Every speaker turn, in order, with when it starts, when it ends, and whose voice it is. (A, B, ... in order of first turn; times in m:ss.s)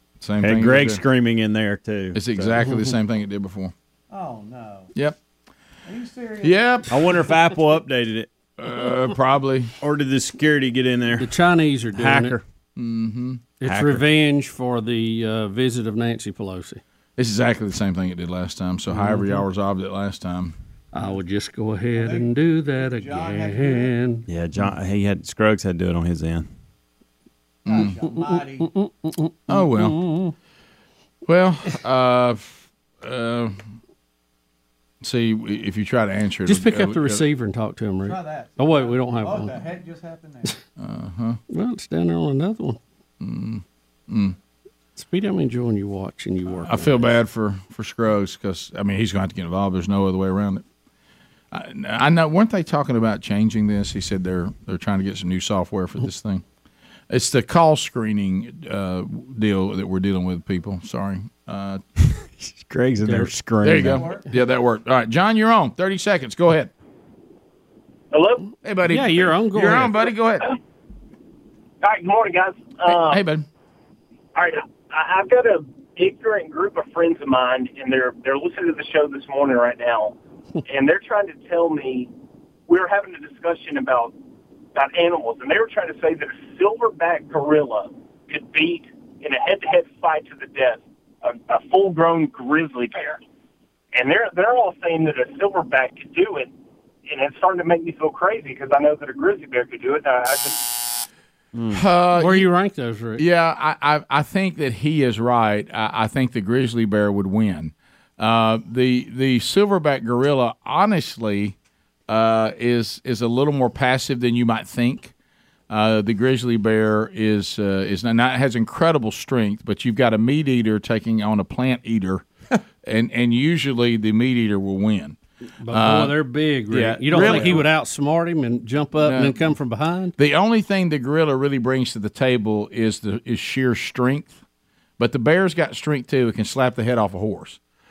0:00.2-0:01.0 A
0:00.4-0:02.6 B
0:02.1-0:03.7 A
0:04.1-0:04.9 C
0:05.8-0:06.6 C
0:06.4-0:06.9 A
0:06.9-0:08.3 B
0:08.6-0:09.7 A
0:09.8-0:11.3 B
0:11.2-0:12.4 D
0:11.9-0:12.4 B
0:12.8-0:13.4 A
0:13.6-0:16.8 D
0:13.6-0:14.0 B
0:17.2-0:20.5 A
0:20.9-0:24.2 D
0:21.9-0:23.9 C
0:24.3-0:26.5 B
0:27.6-0:27.9 A
0:27.6-0:28.7 C
0:28.1-0:30.3 D
0:29.5-0:30.0 A
0:31.2-0:33.6 A
0:35.0-0:37.2 A
0:36.4-0:39.6 D
0:38.0-0:40.5 C
0:40.8-0:41.4 A
0:41.5-0:42.8 D
0:43.2-0:44.4 A
0:45.0-0:47.1 D
0:46.6-0:50.6 A
0:51.5-0:56.4 A
0:57.1-1:01.8 A
1:02.4-1:04.0 B
1:03.0-1:03.3 D
1:03.6-1:06.7 A
1:03.8-1:04.2 C
1:08.1-1:08.5 E
1:08.6-1:10.5 A
1:08.9-1:10.0 D
1:11.8-1:13.2 E
1:12.9-1:13.4 A
1:14.3-1:22.1 E
1:22.7-1:24.2 E
1:24.7-1:33.2 E
1:33.9-1:36.5 E
1:37.0-1:40.6 E
1:41.5-1:41.8 B
1:41.7-1:42.5 A
1:42.1-1:43.2 D
1:43.2-1:51.5 A
1:52.1-1:55.1 A
1:55.7-2:02.2 A
2:02.8-2:05.2 A
2:05.6-2:10.1 D
2:05.7-2:07.6 A
2:07.1-2:07.6 C
2:09.0-2:09.4 A
2:10.2-2:14.4 A
2:15.0-2:17.6 A